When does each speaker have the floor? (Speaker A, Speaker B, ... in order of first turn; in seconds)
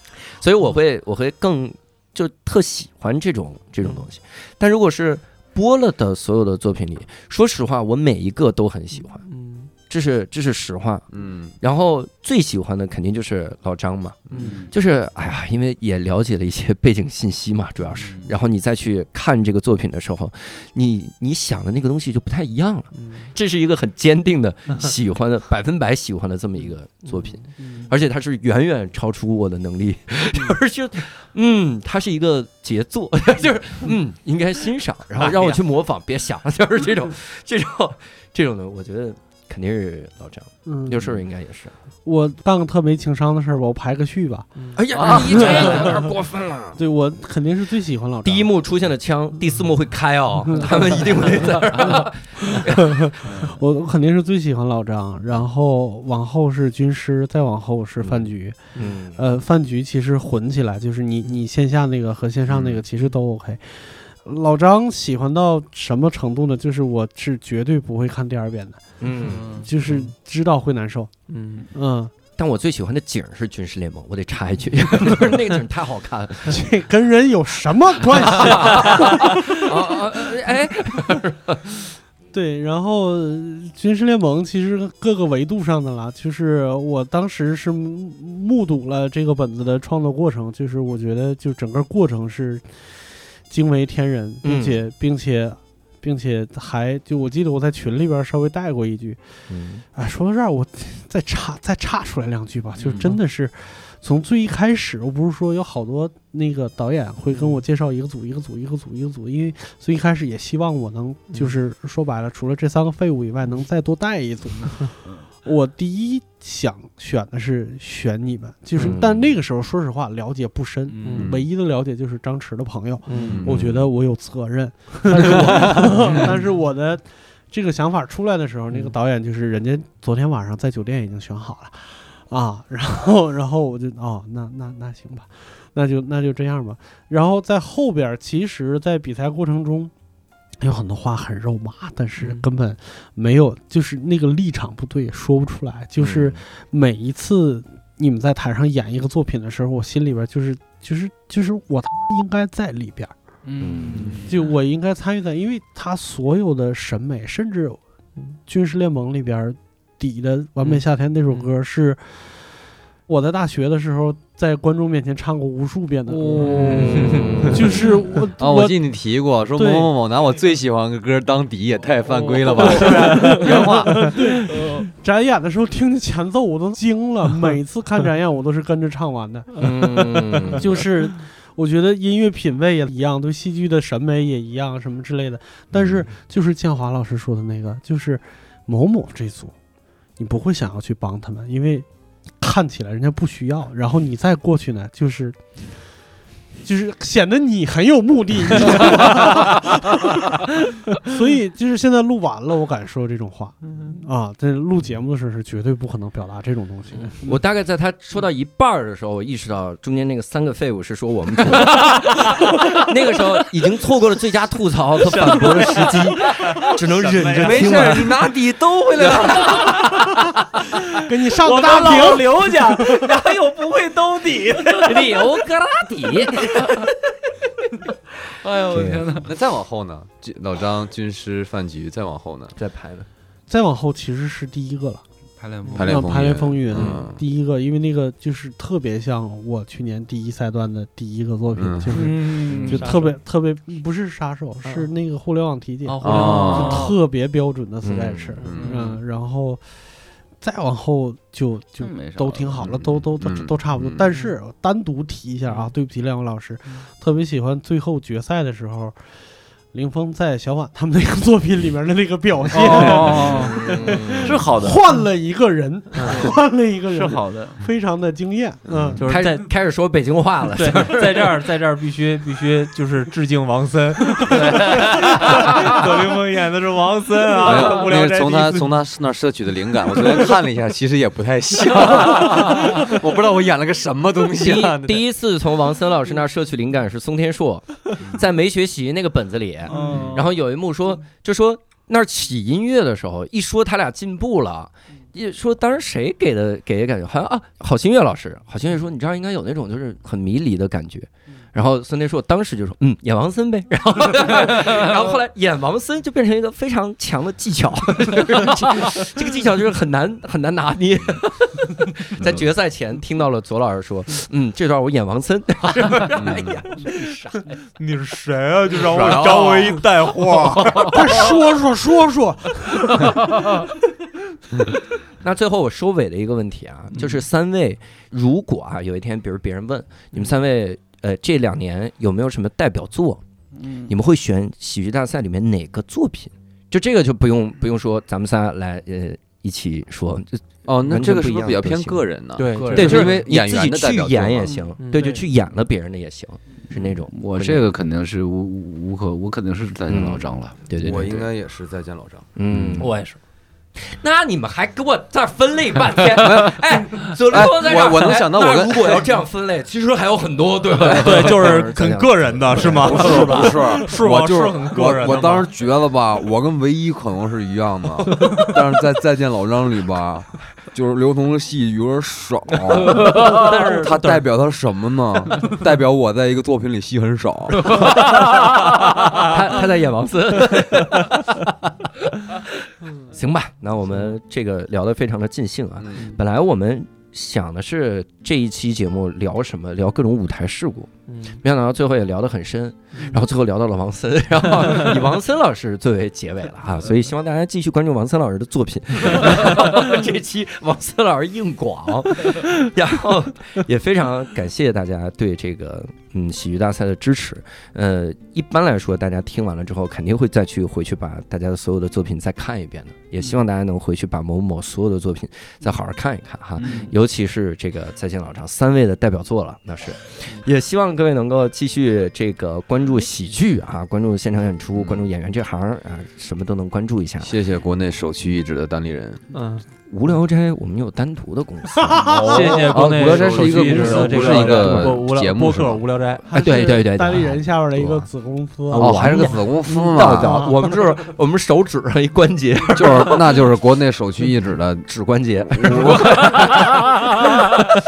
Speaker A: 0.3-9.3, 9.8-11.1, 11.6-41.7, 44.8-46.8, 48.2-53.5, 58.0-59.2, 69.0-69.5, 72.3-76.7, 78.4-81.8, 94.4-94.8, 99.5-99.8, 118.8-119.4, 123.4-123.9, 146.0-146.4, 153.6-154.2, 166.5-167.8, 179.6-180.8, 185.7-186.1, 207.2-218.1, 224.8-226.9, 228.7-229.1, 232.6-233.1, 236.7-237.0, 247.8-248.4, 262.8-264.3, 268.8-271.4, 284.4-317.6, 325.2-333.2, 333.9-342.0, 342.6-347.6, 349.9-351.1, 352.4-352.9, 353.8-363.7, 377.6-381.5, 383.1-427.3, 429.8-432.5, 436.3-438.1, 438.7-443.4, 444.9-447.7
Speaker B: 9.2-9.7, 22.9-23.3, 27.1-27.8, 35.2-35.6, 44.5-44.8, 69.4-70.1, 71.3-71.7, 107.3-107.6, 121.0-121.3, 123.0-123.4, 125.2-126.3, 142.2-142.4, 166.2-167.4, 172.6-174.3, 215.0-218.1, 221.4-225.2, 241.9-243.2, 245.8-246.9, 254.1-254.3, 262.6-262.9, 265.9-266.3, 269.1-269.5, 270.5-278.7, 289.7-290.2, 317.8-321.1, 342.4-343.2, 344.8-345.2, 352.8-353.2, 360.8-365.5, 368.2-368.6, 373.1-374.3, 391.1-391.4, 392.9-393.2, 416.6-416.9, 429.3-429.6, 432.2-436.3, 438.8-439.4, 440.3-440.5
Speaker C: 11.1-11.6, 121.2-121.5, 123.2-123.7, 168.4-173.4, 217.3-219.9, 229.2-232.6, 235.8-237.2, 241.6-242.0, 246.0-246.7, 248.4-248.7, 253.2-254.1, 277.4-285.0, 289.7-290.3, 316.1-316.6, 318.7-320.6, 340.6-344.6, 350.8-352.3, 356.1-359.2, 360.9-361.3, 362.7-377.9, 385.8-386.1, 424.7-425.1, 427.2-429.2, 432.3-435.8, 438.8-440.4, 442.7-446.6
Speaker D: 14.4-14.7, 18.0-18.3, 69.3-69.7, 120.9-121.3, 153.4-154.3, 166.1-167.5, 172.6-172.9, 226.0-226.8, 228.4-229.3, 235.4-236.1, 242.0-243.0, 246.0-246.9, 248.5-249.0, 251.8-252.7, 262.5-263.6, 264.1-264.8, 266.9-267.6, 274.3-275.7, 289.9-290.2, 304.7-305.0, 333.6-333.9, 346.8-351.2, 352.5-352.8, 373.1-373.3, 432.0-435.0
Speaker E: 27.6-27.9, 40.6-41.1, 42.0-46.1, 46.8-48.5, 50.5-71.1, 71.7-72.1, 74.9-75.4, 76.5-80.2, 82.3-99.2, 99.9-139.9, 140.6-153.1, 154.2-157.8, 158.4-162.4, 163.1-168.7, 169.6-169.9, 172.5-189.6, 190.2-191.9, 192.4-195.6, 196.6-207.2, 220.8-223.1, 233.5-235.0, 235.8-249.6, 250.4-259.0, 259.7-269.0, 320.8-323.3, 344.5-345.2, 436.3-439.1, 439.9-440.5